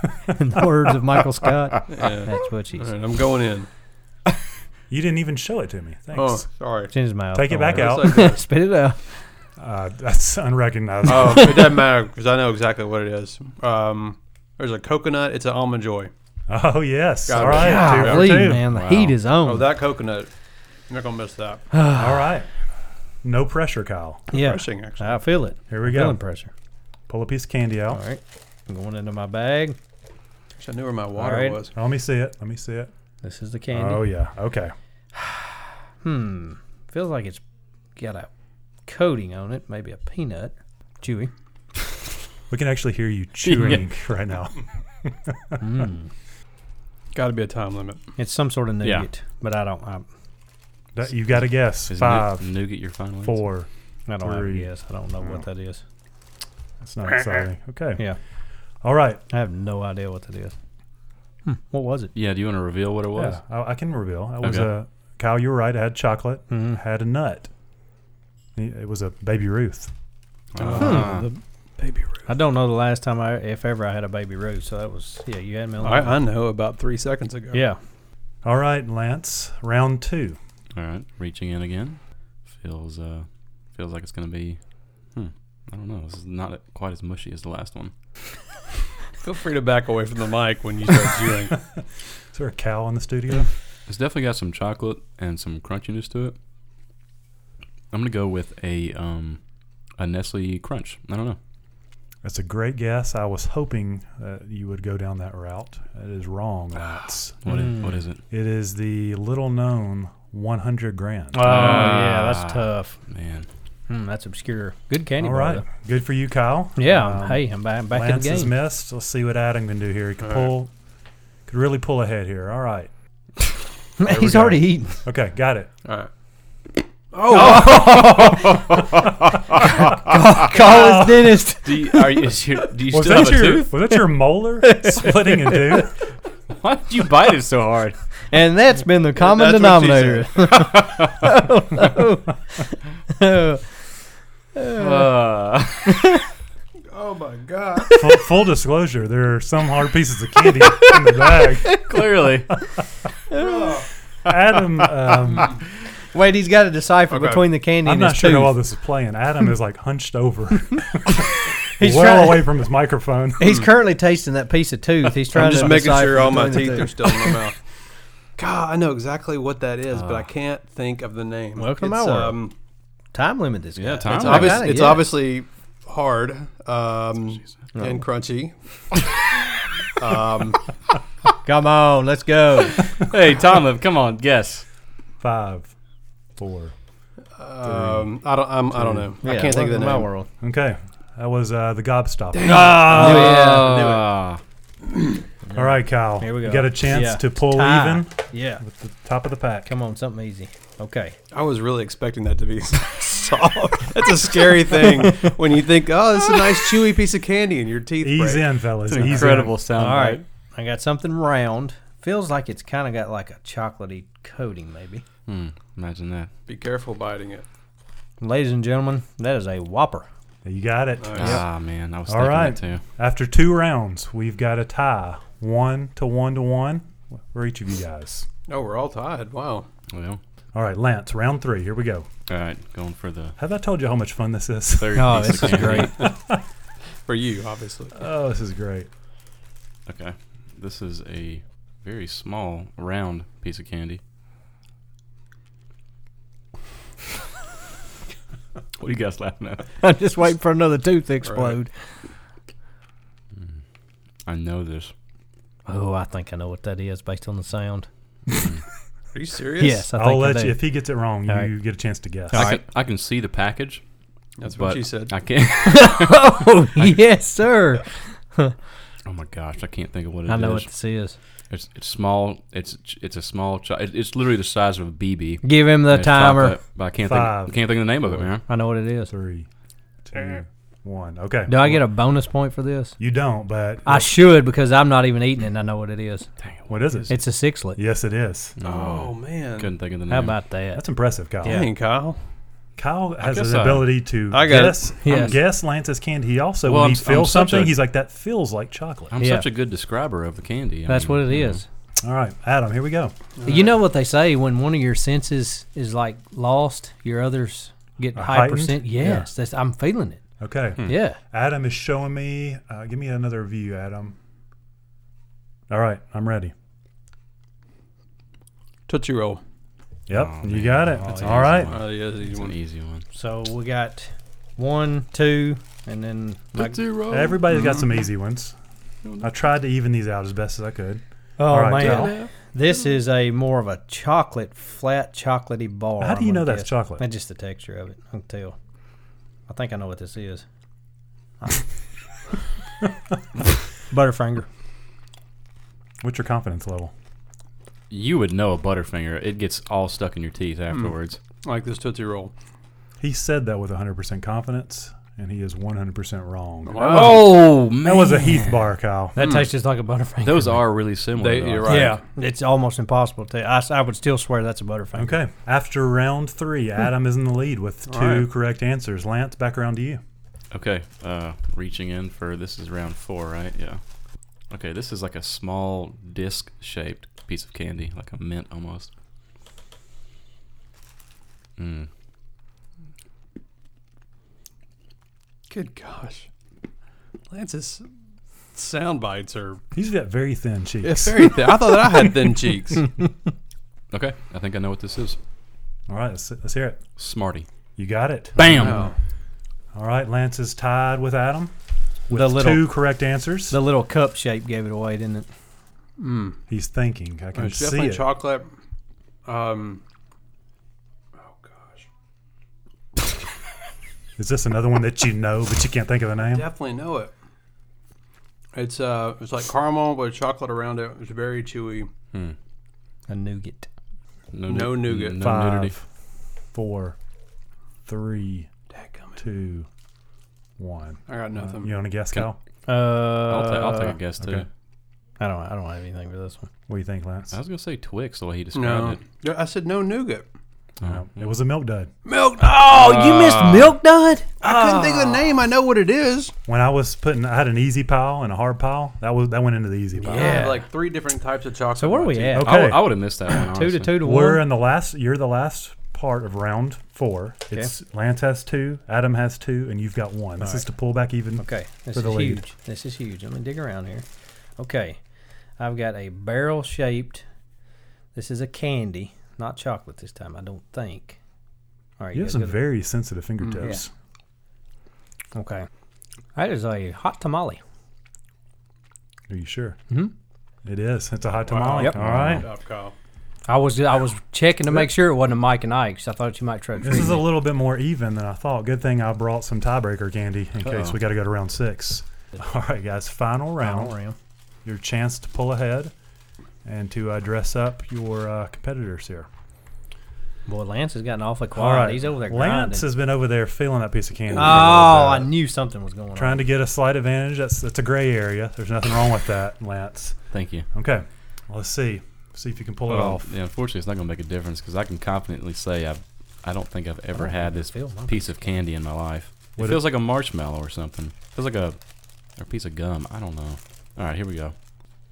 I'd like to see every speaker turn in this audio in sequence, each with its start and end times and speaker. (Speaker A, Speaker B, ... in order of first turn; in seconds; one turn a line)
Speaker A: 0.3-2.9
Speaker B: 1.9-3.7
Speaker C: 4.9-6.5
Speaker B: 6.1-6.9
Speaker A: 6.9-9.2
Speaker C: 7.3-8.4
Speaker B: 7.7-8.4
Speaker C: 9.6-11.8
Speaker B: 11.1-16.1
Speaker C: 16.5-18.6
Speaker B: 17.3-18.5
Speaker A: 17.4-19.7
Speaker D: 18.7-19.2
Speaker B: 19.4-20.3
Speaker B: 20.9-21.7
Speaker A: 21.7-22.3
Speaker C: 21.9-22.5
Speaker C: 23.2-24.2
Speaker B: 24.3-25.2
Speaker A: 24.3-26.5
Speaker C: 25.7-26.2
Speaker C: 27.1-28.0
Speaker A: 27.9-29.8
Speaker B: 30.6-31.7
Speaker A: 31.2-31.6
Speaker C: 31.7-32.9
Speaker A: 33.2-34.1
Speaker C: 33.7-34.7
Speaker A: 35.2-37.4
Speaker A: 38.0-38.3
Speaker A: 38.9-41.3
Speaker C: 42.5-45.6
Speaker D: 43.4-43.9
Speaker A: 45.6-46.1
Speaker B: 47.1-48.0
Speaker A: 48.2-50.1
Speaker C: 51.0-52.5
Speaker D: 51.9-53.4
Speaker C: 53.2-53.7
Speaker A: 54.1-55.8
Speaker C: 54.2-54.7
Speaker C: 56.8-58.0
Speaker C: 58.8-59.2
Speaker A: 59.3-60.5
Speaker A: 61.5-62.1
Speaker D: 62.1-63.4
Speaker C: 63.2-67.5
Speaker D: 64.4-64.7
Speaker A: 66.5-66.8
Speaker C: 68.6-69.9
Speaker D: 70.5-71.3
Speaker B: 70.6-72.3
Speaker A: 70.8-71.2
Speaker A: 72.3-76.2
Speaker B: 75.8-77.7
Speaker A: 77.5-77.8
Speaker C: 78.4-80.4
Speaker D: 80.7-84.6
Speaker D: 85.1-87.9
Speaker B: 89.2-91.7
Speaker C: 92.3-93.5
Speaker D: 93.9-96.4
Speaker D: 97.9-99.4
Speaker D: 100.0-101.4
Speaker C: 102.2-107.6
Speaker D: 107.4-108.2
Speaker A: 107.5-107.9
Speaker C: 108.3-111.8
Speaker A: 111.3-113.0
Speaker D: 111.4-113.5
Speaker A: 113.9-115.6
Speaker C: 115.2-120.7
Speaker A: 116.8-118.6
Speaker B: 120.2-120.5
Speaker C: 121.5-122.9
Speaker A: 124.0-125.0
Speaker C: 124.0-125.7
Speaker B: 125.8-126.1
Speaker B: 127.1-128.1
Speaker C: 127.3-128.5
Speaker A: 127.3-128.5
Speaker D: 127.7-129.6
Speaker A: 129.8-132.3
Speaker C: 130.4-131.4
Speaker D: 131.6-133.7
Speaker C: 132.9-135.9
Speaker A: 134.6-135.9
Speaker D: 136.6-138.0
Speaker A: 138.3-143.6
Speaker B: 139.2-140.5
Speaker D: 140.6-141.3
Speaker A: 144.6-145.1
Speaker D: 144.7-146.1
Speaker A: 145.9-146.2
Speaker B: 146.9-147.9
Speaker C: 147.9-151.8
Speaker D: 151.7-152.5
Speaker A: 153.3-153.8
Speaker B: 153.3-153.9
Speaker C: 154.2-155.6
Speaker A: 156.1-158.6
Speaker B: 157.1-157.4
Speaker C: 157.8-163.6
Speaker A: 161.8-162.6
Speaker A: 163.4-167.4
Speaker B: 165.3-167.6
Speaker B: 168.4-172.5
Speaker D: 169.9-170.3
Speaker A: 171.6-172.4
Speaker A: 173.1-175.2
Speaker D: 173.8-174.9
Speaker B: 174.1-178.5
Speaker A: 177.8-178.0
Speaker B: 180.0-180.7
Speaker A: 181.4-182.9
Speaker D: 183.0-184.7
Speaker C: 185.2-185.7
Speaker C: 186.4-186.7
Speaker B: 187.4-190.1
Speaker C: 187.6-188.1
Speaker C: 188.8-189.1
Speaker A: 189.2-190.3
Speaker C: 190.4-193.4
Speaker B: 192.3-194.1
Speaker A: 192.8-193.9
Speaker D: 192.9-194.4
Speaker A: 195.5-198.6
Speaker C: 195.5-199.7
Speaker A: 199.7-201.2
Speaker B: 201.3-208.5
Speaker C: 208.0-209.6
Speaker D: 208.8-210.2
Speaker A: 209.7-215.0
Speaker D: 215.3-216.3
Speaker B: 216.5-217.5
Speaker A: 218.2-220.1
Speaker C: 220.4-221.4
Speaker B: 221.0-221.4
Speaker D: 221.2-222.8
Speaker C: 222.1-228.3
Speaker B: 228.5-229.7
Speaker D: 229.9-230.2
Speaker C: 230.5-232.1
Speaker D: 232.3-233.4
Speaker C: 233.4-236.4
Speaker D: 234.8-236.1
Speaker A: 234.9-236.1
Speaker B: 237.1-238.0
Speaker C: 237.9-238.9
Speaker D: 239.9-244.0
Speaker D: 248.8-249.7
Speaker A: 249.8-251.7
Speaker B: 251.2-251.6
Speaker D: 254.3-254.9
Speaker A: 255.7-257.9
Speaker B: 259.1-259.9
Speaker A: 259.6-260.7
Speaker C: 259.9-262.5
Speaker A: 262.3-262.6
Speaker D: 262.3-263.8
Speaker B: 264.4-265.1
Speaker D: 264.5-267.0
Speaker A: 265.6-268.6
Speaker D: 269.1-270.7
Speaker A: 270.3-271.2
Speaker D: 271.5-278.4
Speaker A: 275.4-276.6
Speaker C: 277.0-278.3
Speaker A: 278.5-279.1
Speaker C: 279.1-279.5
Speaker C: 280.1-281.8
Speaker A: 281.5-283.0
Speaker C: 283.0-284.1
Speaker A: 283.9-286.3
Speaker D: 286.4-287.1
Speaker C: 286.7-287.2
Speaker A: 287.1-287.8
Speaker C: 287.8-288.6
Speaker D: 288.6-290.4
Speaker B: 288.6-289.7
Speaker A: 290.1-290.8
Speaker C: 290.7-291.6
Speaker A: 291.4-291.7
Speaker B: 291.4-292.2
Speaker C: 292.8-299.1
Speaker D: 293.2-294.0
Speaker B: 294.3-294.9
Speaker A: 295.0-295.4
Speaker D: 295.1-295.4
Speaker D: 296.6-297.8
Speaker D: 299.1-301.6
Speaker A: 299.2-299.5
Speaker A: 300.9-301.6
Speaker C: 302.0-303.1
Speaker B: 303.4-303.8
Speaker A: 303.4-310.2
Speaker C: 308.1-309.3
Speaker C: 310.4-314.2
Speaker A: 310.9-311.2
Speaker C: 315.7-316.5
Speaker B: 318.9-319.4
Speaker C: 320.1-321.8
Speaker D: 320.1-323.1
Speaker A: 321.0-321.6
Speaker B: 321.7-322.6
Speaker A: 323.1-326.8
Speaker D: 326.6-327.8
Speaker C: 327.1-328.6
Speaker D: 329.0-329.3
Speaker C: 329.2-332.1
Speaker A: 331.4-338.6
Speaker D: 331.7-332.3
Speaker C: 336.0-337.1
Speaker A: 339.5-340.4
Speaker A: 343.9-344.5
Speaker C: 346.0-346.9
Speaker D: 347.9-351.2
Speaker B: 351.4-352.3
Speaker C: 353.0-359.2
Speaker B: 356.7-357.4
Speaker D: 356.8-358.7
Speaker A: 359.2-360.6
Speaker B: 359.2-359.5
Speaker D: 360.2-362.0
Speaker B: 361.2-362.0
Speaker A: 361.6-365.2
Speaker C: 365.0-370.0
Speaker B: 367.9-368.3
Speaker D: 370.5-373.8
Speaker D: 374.5-378.9
Speaker D: 381.6-381.9
Speaker B: 385.5-386.3
Speaker B: 387.3-387.9
Speaker B: 388.5-389.6
Speaker C: 389.7-391.6
Speaker B: 390.8-392.9
Speaker D: 393.9-395.2
Speaker C: 395.9-396.8
Speaker D: 397.0-397.5
Speaker C: 397.8-398.8
Speaker D: 398.4-398.9
Speaker B: 398.5-398.9
Speaker C: 399.7-401.5
Speaker C: 402.1-403.6
Speaker A: 402.1-402.8
Speaker A: 403.5-405.3
Speaker B: 406.0-406.4
Speaker C: 406.5-408.1
Speaker B: 407.4-408.5
Speaker B: 409.3-409.8
Speaker B: 411.2-411.9
Speaker C: 414.2-416.5
Speaker B: 416.3-417.1
Speaker B: 418.5-421.9
Speaker A: 423.1-423.7
Speaker D: 424.3-425.8
Speaker B: 424.5-425.2
Speaker C: 425.1-425.9
Speaker C: 426.5-427.0
Speaker C: 427.9-428.5
Speaker B: 428.7-429.2
Speaker C: 429.2-429.7
Speaker C: 430.6-432.4
Speaker B: 431.1-431.8
Speaker A: 432.7-434.0
Speaker D: 433.2-434.5
Speaker C: 434.2-434.5
Speaker A: 435.2-436.5
Speaker C: 436.7-437.3
Speaker D: 437.3-439.0
Speaker B: 438.5-440.3
Speaker D: 440.8-441.3
Speaker C: 440.8-441.9
Speaker B: 442.1-443.8
Speaker A: 442.4-444.4
Speaker B: 444.4-446.3
Speaker C: 444.4-445.1
Speaker C: 446.5-450.4
Speaker A: 450.0-450.7
Speaker B: 450.1-452.5
Speaker A: 451.8-452.8
Speaker C: 452.4-453.0
Speaker D: 452.4-454.0
Speaker A: 453.4-454.5
Speaker C: 454.0-462.4
Speaker A: 461.4-464.1
Speaker A: 464.6-465.0
Speaker A: 465.6-467.2
Speaker A: 468.1-471.2
Speaker A: 472.0-472.6
Speaker C: 472.1-473.9
Speaker A: 475.4-475.7
Speaker A: 476.4-477.6
Speaker C: 479.3-479.8
Speaker C: 480.6-482.5
Speaker B: 481.5-482.9
Speaker D: 482.0-482.4
Speaker A: 483.5-487.3
Speaker C: 486.8-493.9
Speaker D: 490.6-491.0
Speaker A: 493.6-494.2
Speaker C: 494.6-495.9
Speaker C: 496.6-499.3
Speaker A: 500.5-502.9
Speaker C: 501.6-505.3
Speaker A: 504.3-506.4
Speaker C: 506.2-510.2
Speaker D: 510.3-510.7
Speaker C: 510.7-513.3
Speaker D: 512.9-521.8
Speaker A: 517.2-518.5
Speaker C: 519.6-519.9
Speaker D: 522.4-524.5